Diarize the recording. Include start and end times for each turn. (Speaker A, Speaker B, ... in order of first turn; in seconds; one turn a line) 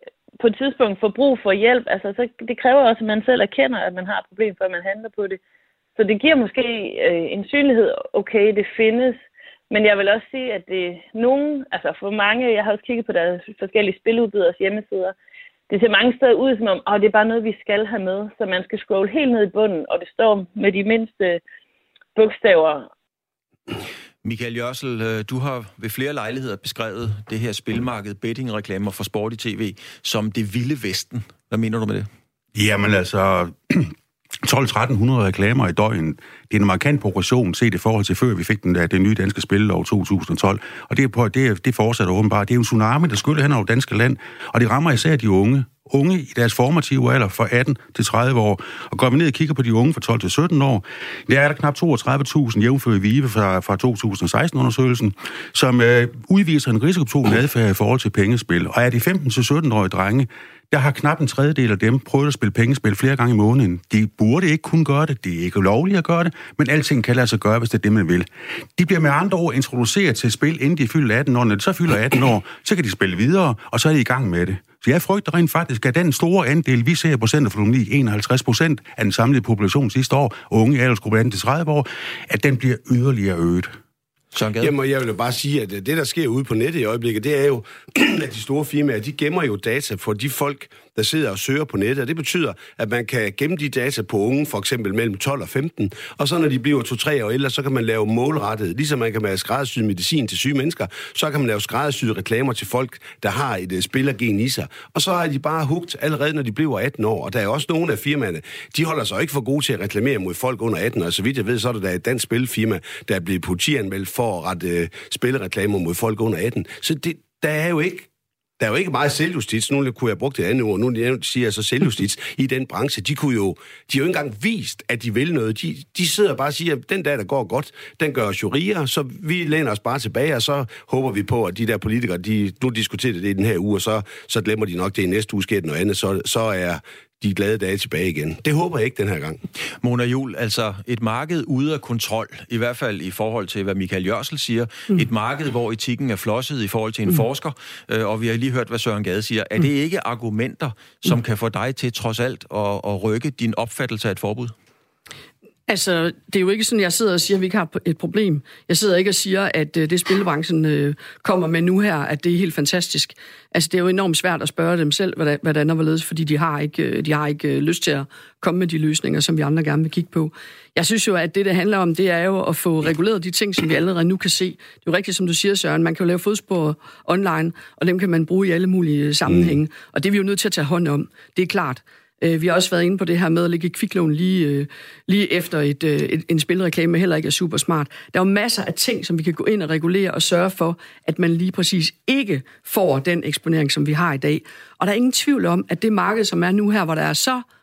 Speaker A: 0.4-5.4
Speaker A: 6.0-15.1
Speaker A: 15.7-21.4
Speaker A: 22.1-22.9
Speaker B: 24.2-32.1
Speaker C: 32.5-83.7
Speaker B: 84.3-84.7
Speaker D: 84.6-118.1
Speaker D: 118.6-139.4
Speaker B: 139.8-154.5
Speaker E: 155.7-197.4
Speaker D: 179.3-179.5